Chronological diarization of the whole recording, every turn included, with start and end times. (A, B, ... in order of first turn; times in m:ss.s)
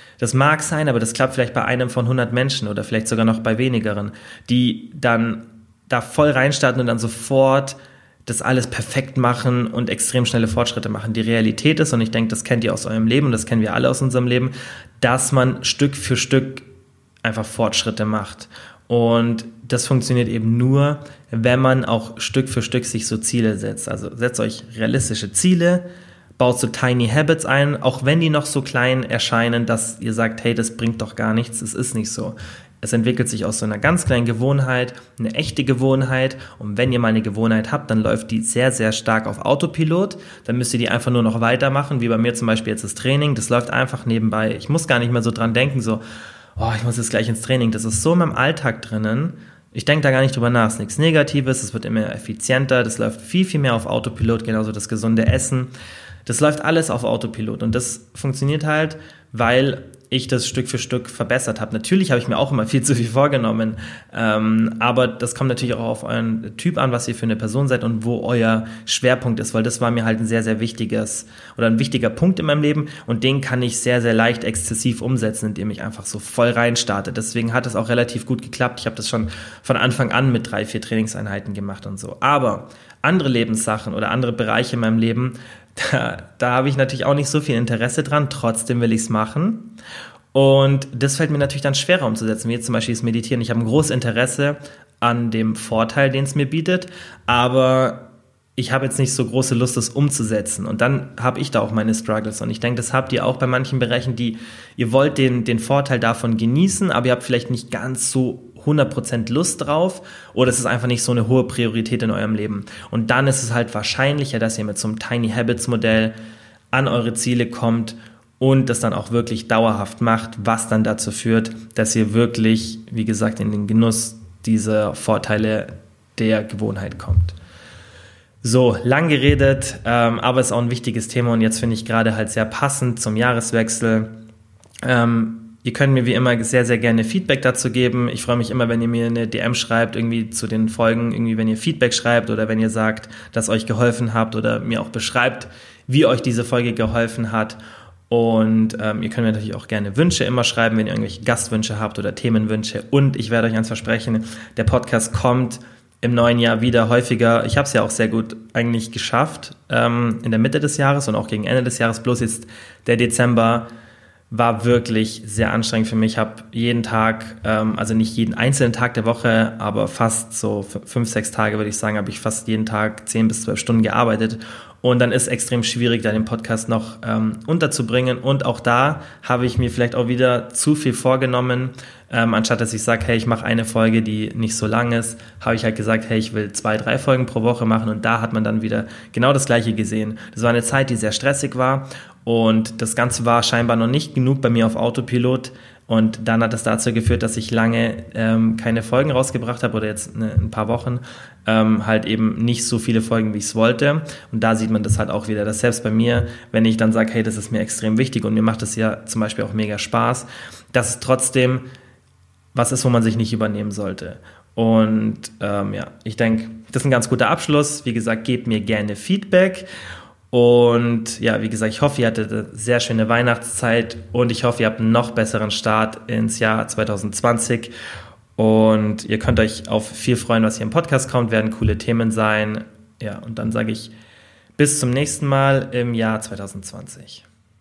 0:00.2-0:16.6 A
0:17.2-0:25.8 A
0:26.4-0:46.0 A
0:46.6-0:55.7 A
0:56.3-1:29.7 A
1:30.3-1:38.0 A
1:38.6-1:56.1 A
1:56.7-2:07.4 A
2:08.4-2:14.1 A
2:14.8-2:27.6 A
2:28.1-2:43.7 A
2:44.3-3:31.6 A
3:32.5-3:39.7 A
3:40.3-3:47.7 A
3:48.4-3:53.9 A
3:54.6-3:57.2 A